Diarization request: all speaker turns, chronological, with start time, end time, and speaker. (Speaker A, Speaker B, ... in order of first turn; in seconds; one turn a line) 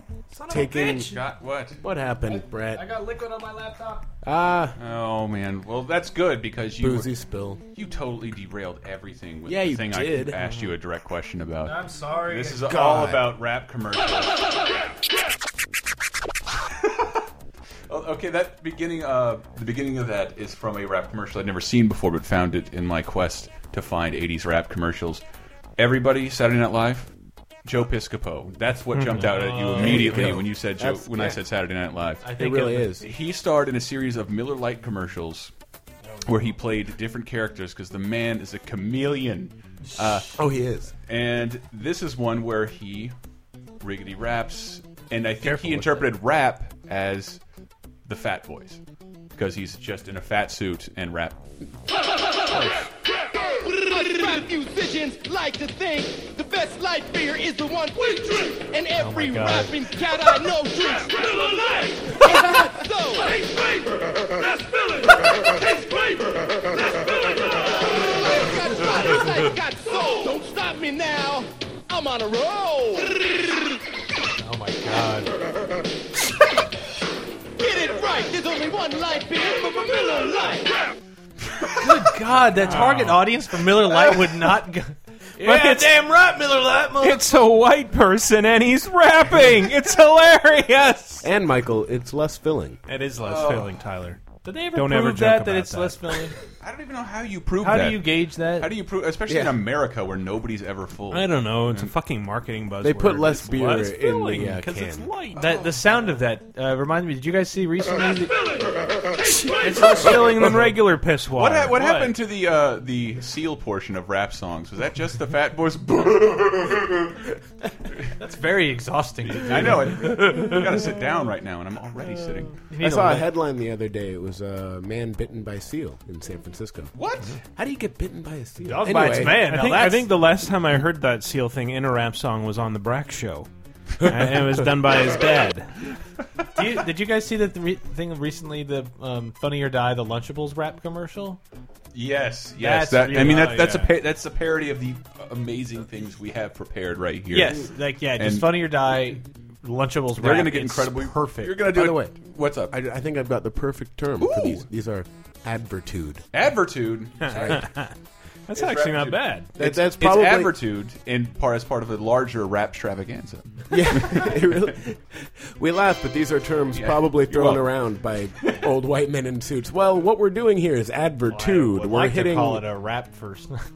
Speaker A: 0.3-1.1
Speaker B: 0.5-1.1
Speaker C: 0.6-1.8
Speaker B: 1.8-2.9
Speaker A: 2.8-4.0
Speaker B: 4.2-4.8
Speaker C: 4.8-7.1
Speaker B: 6.8-7.6
Speaker C: 7.7-14.3
Speaker B: 9.4-10.4
Speaker A: 11.6-12.7
Speaker B: 12.5-13.3
Speaker C: 16.7-17.3
Speaker C: 17.9-25.2
Speaker C: 25.8-27.1
Speaker C: 27.6-35.5
Speaker D: 28.9-29.3
Speaker A: 29.2-30.4
Speaker B: 29.8-31.4
Speaker A: 32.2-32.9
Speaker B: 32.3-33.1
Speaker A: 36.0-36.5
Speaker C: 36.2-40.4
Speaker A: 39.9-40.2
Speaker B: 40.3-40.9
Speaker C: 41.1-43.1
Speaker C: 43.8-47.4
Speaker A: 45.4-46.0
Speaker C: 48.0-48.8
Speaker C: 49.3-51.5
Speaker A: 52.5-52.8
Speaker E: 53.5-63.4
Speaker A: 59.0-59.7
Speaker E: 65.5-73.3
Speaker A: 74.4-75.3
Speaker E: 77.6-80.7
Speaker C: 81.5-81.9
Speaker A: 81.8-87.2
Speaker D: 82.6-83.2
Speaker D: 85.4-85.9
Speaker D: 87.0-91.3
Speaker B: 91.2-92.8
Speaker D: 92.9-94.2
Speaker C: 93.2-93.8
Speaker A: 94.4-96.3
Speaker D: 94.7-96.2
Speaker C: 96.6-101.9
Speaker A: 97.6-98.7
Speaker B: 99.3-99.6
Speaker D: 101.1-105.4
Speaker B: 102.8-105.1
Speaker A: 105.3-108.6
Speaker D: 109.4-112.1
Speaker C: 111.3-117.1
Speaker A: 118.2-120.5
Speaker C: 119.3-122.5
Speaker A: 122.7-123.3
Speaker B: 122.8-126.9
Speaker C: 126.9-127.4
Speaker B: 127.5-129.4
Speaker A: 128.6-130.1
Speaker D: 128.9-133.5
Speaker D: 134.0-135.7
Speaker A: 136.5-141.4
Speaker C: 141.9-148.7
Speaker A: 142.6-143.9
Speaker D: 143.2-143.6
Speaker A: 147.3-151.6
Speaker C: 150.2-152.8
Speaker B: 151.7-152.1
Speaker B: 152.7-156.2
Speaker C: 154.2-154.6
Speaker C: 156.3-157.7
Speaker D: 157.2-157.9
Speaker D: 158.5-159.5
Speaker C: 158.5-164.4
Speaker B: 159.6-160.5
Speaker B: 163.7-172.6
Speaker C: 166.7-167.6
Speaker A: 171.3-173.7